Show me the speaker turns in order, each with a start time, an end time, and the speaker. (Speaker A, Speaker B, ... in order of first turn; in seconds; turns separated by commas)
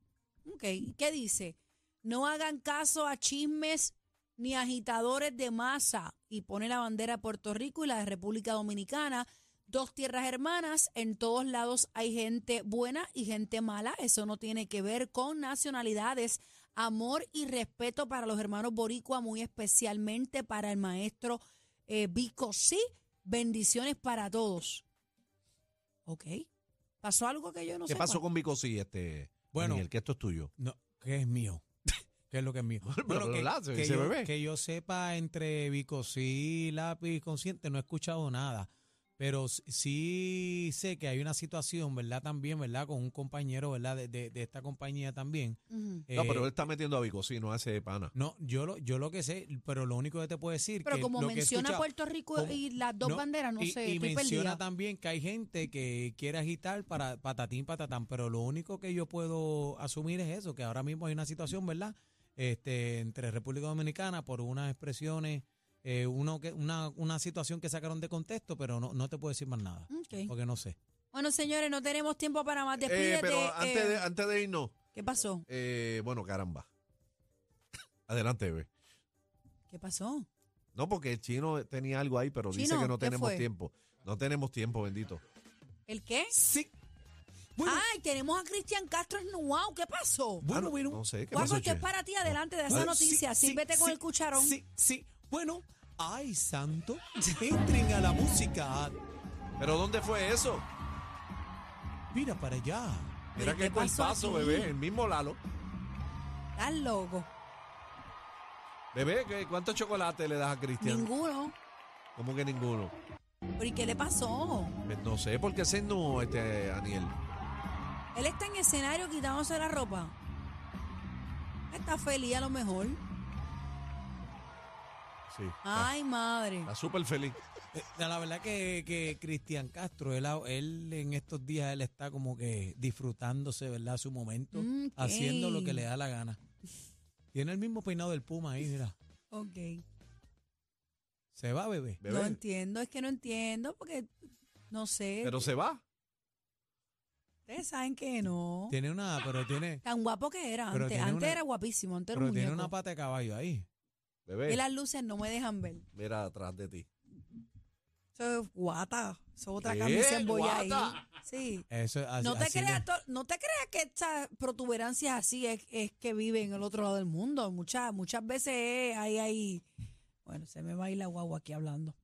Speaker A: 0.4-24.8, Speaker A: 26.1-26.5, Speaker A: 27.0-28.2, Speaker B: 27.9-30.5, Speaker C: 29.5-29.9, Speaker C: 30.6-31.6, Speaker C: 32.3-46.5, Speaker B: 32.8-34.3, Speaker A: 45.7-46.0, Speaker B: 46.1-48.1, Speaker C: 48.1-70.8, Speaker A: 50.9-54.6, Speaker A: 69.9-70.3, Speaker A: 71.1-74.1, Speaker B: 72.8-74.8, Speaker A: 74.9-75.4, Speaker B: 75.5-76.7, Speaker B: 78.1-78.7, Speaker A: 79.7-80.3, Speaker B: 80.7-85.2, Speaker A: 82.5-83.5, Speaker A: 85.9-86.3, Speaker C: 86.3-86.7, Speaker C: 87.5-87.8, Speaker A: 87.7-90.5, Speaker C: 90.4-91.0, Speaker B: 90.5-93.0, Speaker A: 91.3-94.6, Speaker C: 92.7-99.0, Speaker B: 99.6-100.7, Speaker C: 102.1-103.2, Speaker A: 103.3-104.7, Speaker B: 103.3-105.4, Speaker A: 106.5-107.3, Speaker B: 108.9-111.1, Speaker A: 110.8-111.5, Speaker B: 112.2-112.9, Speaker A: 113.6-114.8, Speaker B: 114.9-117.1, Speaker A: 118.1-120.1, Speaker A: 121.7-123.0, Speaker B: 125.3-125.9, Speaker A: 125.6-126.7, Speaker B: 126.7-127.4, Speaker C: 127.7-136.4, Speaker A: 134.5-135.8, Speaker C: 137.3-138.9, Speaker A: 139.3-139.8, Speaker C: 141.3-142.0, Speaker B: 142.0-142.4, Speaker A: 142.0-144.1, Speaker A: 144.7-145.5, Speaker B: 145.2-145.8, Speaker A: 147.5-148.7, Speaker C: 148.7-149.8, Speaker A: 149.8-152.7, Speaker C: 150.7-151.4, Speaker C: 152.1-153.7, Speaker B: 154.3-154.6, Speaker A: 154.5-155.8, Speaker B: 155.9-156.9, Speaker A: 158.2-161.6, Speaker B: 159.6-161.0, Speaker C: 161.7-162.9, Speaker A: 162.2-169.7, Speaker A: 170.2-171.9